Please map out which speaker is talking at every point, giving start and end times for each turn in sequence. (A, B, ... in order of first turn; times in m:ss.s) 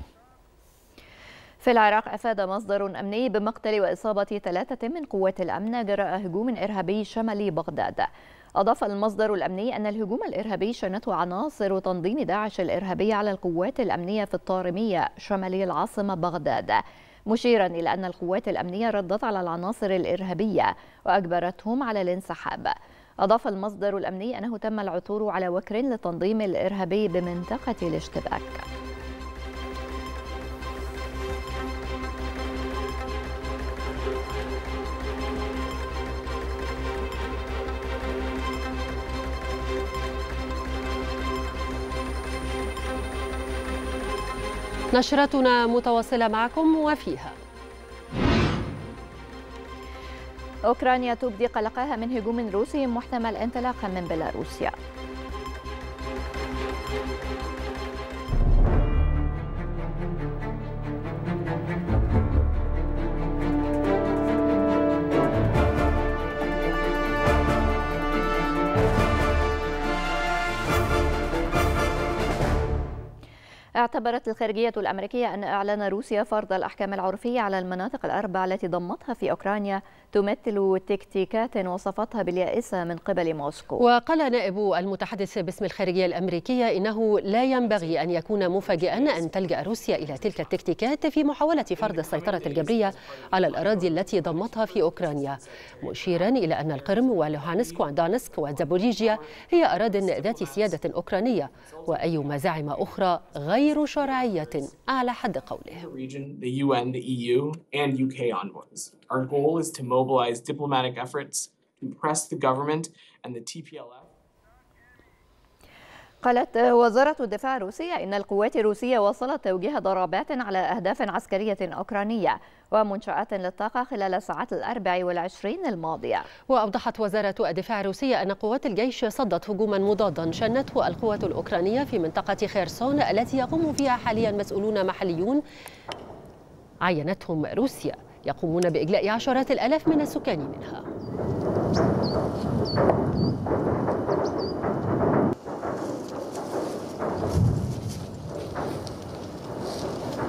0:01.6-0:28.6 A
0:44.9-0:47.4 B
0:50.7-0:54.7 A
1:13.8-1:23.8 A
1:23.8-1:45.9 B
1:28.8-1:29.2 C
1:31.8-1:36.2 C
1:39.2-1:40.8 C
1:41.7-1:42.3 C
1:43.8-1:44.2 C
1:45.8-1:46.9 C
1:47.6-1:52.8 C
1:53.5-1:54.0 C
1:56.2-2:06.3 A
2:06.5-2:15.4 B
2:16.8-2:20.8 B